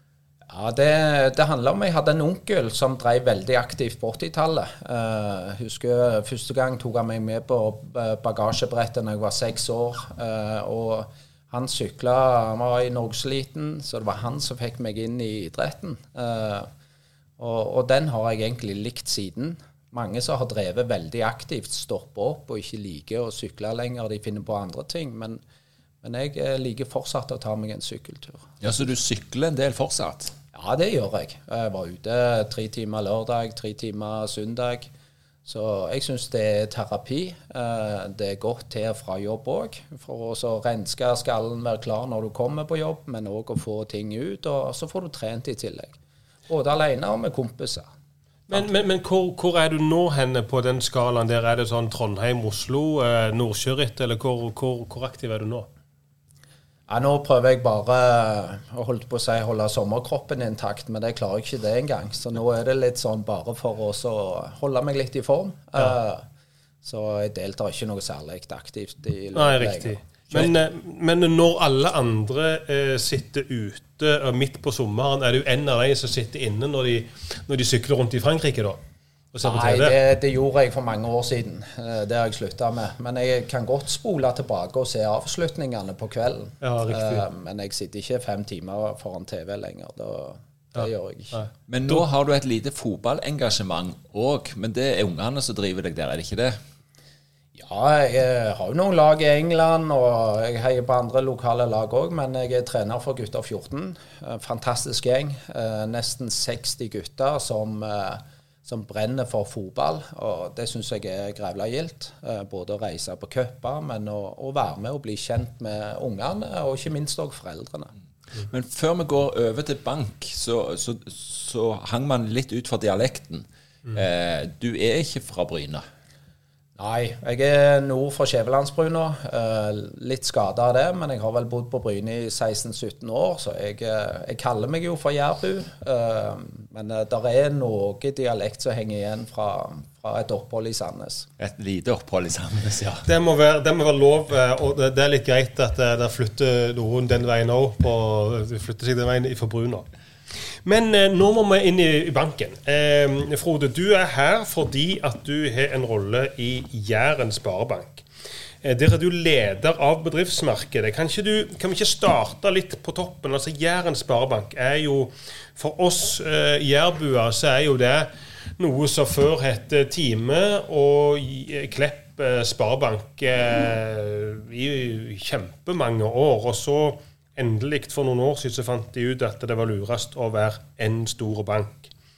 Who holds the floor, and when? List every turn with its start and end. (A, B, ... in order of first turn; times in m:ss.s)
0:00.5-0:16.7 A
0:17.4-0:25.4 A
0:26.0-0:28.6 A
0:28.6-0:30.4 B
0:30.5-0:34.9 A
0:35.5-0:46.0 A
0:46.5-0:47.9 A
0:48.5-0:55.7 C
0:56.9-1:06.3 A
1:06.8-1:10.5 A
1:09.4-1:18.8 C
1:19.3-1:20.0 C
1:19.4-1:31.4 A
1:26.6-1:27.2 C
1:30.8-1:31.5 C
1:31.7-1:36.6 B
1:37.6-1:57.9 A
1:58.4-2:05.8 B
2:06.8-2:21.3 A
2:21.4-2:23.1 B
2:23.1-2:29.9 C
2:30.6-2:38.0 C
2:38.6-3:01.9 C